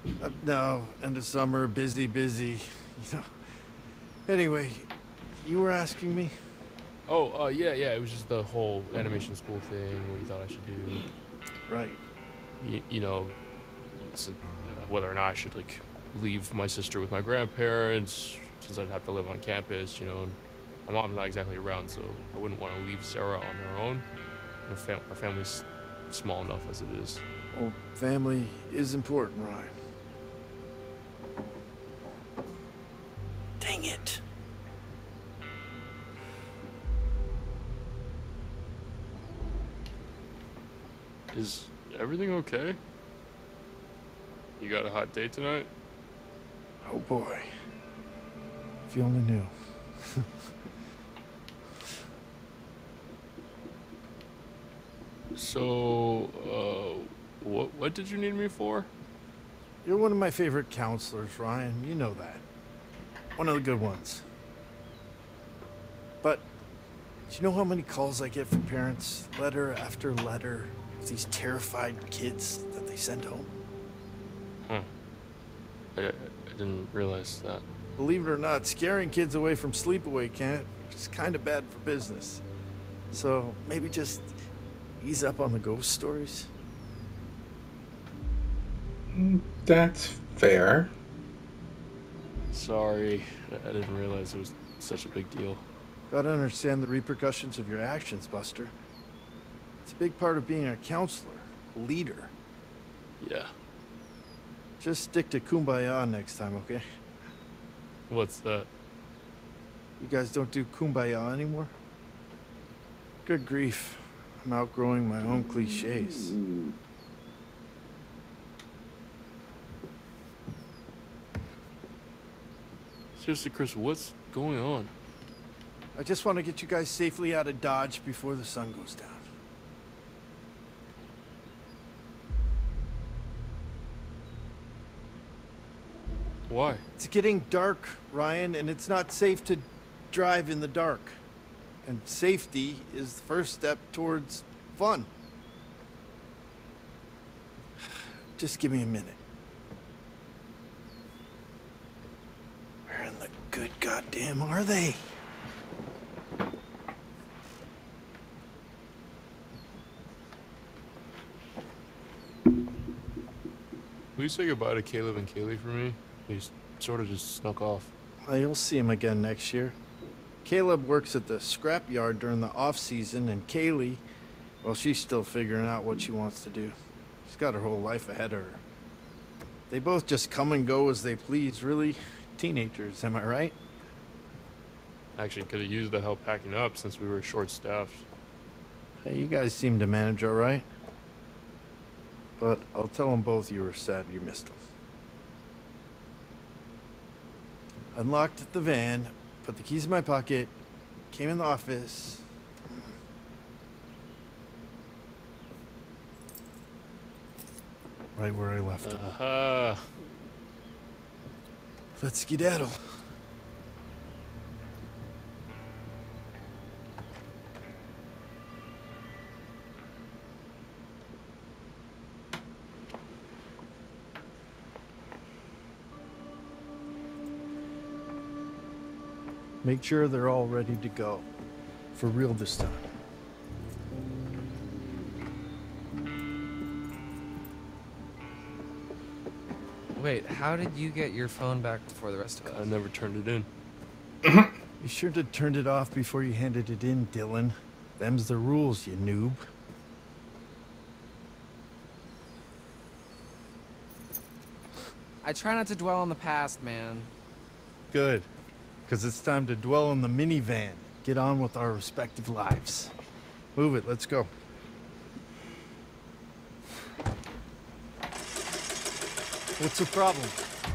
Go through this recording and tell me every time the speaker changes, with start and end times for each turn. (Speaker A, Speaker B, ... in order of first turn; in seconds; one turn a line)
Speaker A: 0.2-3.3
Speaker A: 4.3-4.9
Speaker A: 5.4-6.3
Speaker B: 7.1-11.1
Speaker A: 11.7-12.0
Speaker B: 12.6-13.4
Speaker B: 14.0-24.1
Speaker B: 24.7-27.2
Speaker A: 27.5-29.7
Speaker A: 33.6-34.2
Speaker B: 41.3-42.8
Speaker B: 44.6-45.7
Speaker A: 46.8-47.5
Speaker A: 48.9-49.5
Speaker B: 55.4-58.9
Speaker A: 59.8-62.4
Speaker A: 63.4-64.2
Speaker A: 67.3-73.5
Speaker B: 76.0-77.6
Speaker A: 78.0-82.4
Speaker A: 83.1-84.3
Speaker A: 85.0-86.5
Speaker C: 89.1-90.9
Speaker B: 92.5-95.6
Speaker A: 96.1-98.7
Speaker A: 99.8-102.3
Speaker B: 103.2-103.5
Speaker A: 104.8-106.8
Speaker B: 108.1-108.7
Speaker A: 110.0-111.7
Speaker A: 113.2-116.4
Speaker B: 123.2-124.9
Speaker A: 126.0-129.3
Speaker B: 136.5-136.8
Speaker A: 137.0-141.2
Speaker A: 141.8-145.1
Speaker A: 148.4-149.2
Speaker A: 152.9-155.1
Speaker B: 164.2-167.9
Speaker A: 168.3-169.8
Speaker A: 170.4-174.0
Speaker A: 174.6-178.6
Speaker A: 179.7-183.6
Speaker B: 185.2-188.1
Speaker A: 189.0-190.7
Speaker A: 192.4-194.6
Speaker A: 197.9-200.6
Speaker A: 201.1-202.9
Speaker A: 208.2-209.2
Speaker B: 208.8-209.8
Speaker A: 212.0-212.8
Speaker A: 229.6-231.2
Speaker A: 231.9-232.9
Speaker D: 239.9-242.6
Speaker B: 242.4-243.5
Speaker C: 244.2-244.6
Speaker A: 244.8-249.4
Speaker D: 255.2-257.1
Speaker A: 257.9-258.3
Speaker A: 258.9-262.9
Speaker A: 263.6-264.3
Speaker A: 269.6-270.4